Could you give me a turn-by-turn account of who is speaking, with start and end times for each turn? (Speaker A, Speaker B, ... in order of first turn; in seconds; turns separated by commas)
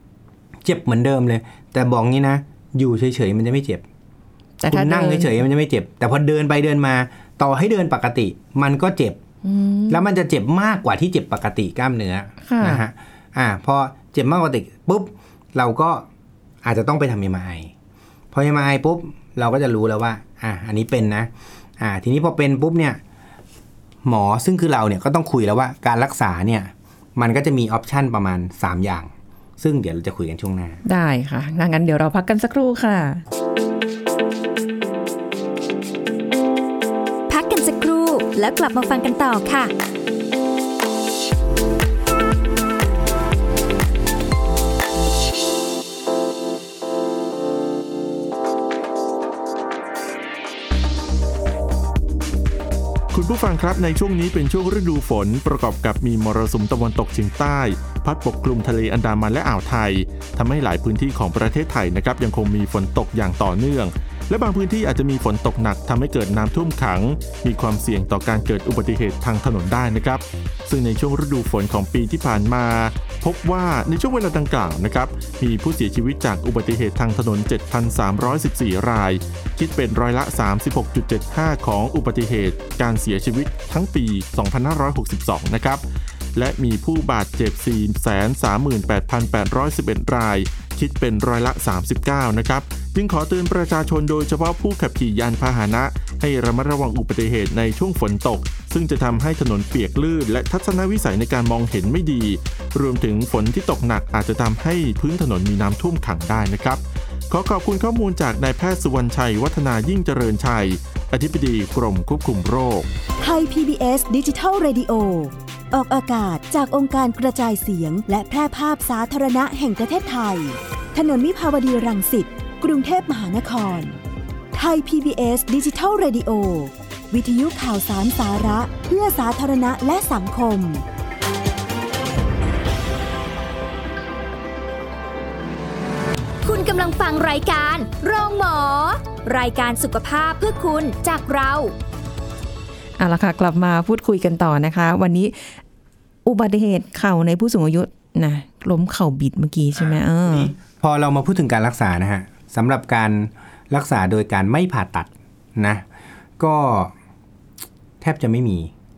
Speaker A: 0.6-3.8, Speaker B: 4.6-5.3, Speaker A: 4.7-9.2, Speaker B: 9.4-10.0, Speaker A: 9.9-16.1, Speaker B: 12.4-12.8, Speaker A: 16.6-17.7, Speaker A: 18.3-23.0, Speaker A: 24.0-30.8, Speaker B: 30.9-33.2, Speaker C: 37.3-39.7, Speaker D: 53.1-85.8, Speaker D: 86.3-112.9, Speaker E: 113.2-124.0, Speaker E: 124.5-130.8, Speaker C: 136.4-141.7, Speaker B: 143.0-145.6, Speaker B: 146.2-150.5, Speaker A: 149.8-155.8, Speaker A: 156.4-156.9, Speaker A: 158.0-158.7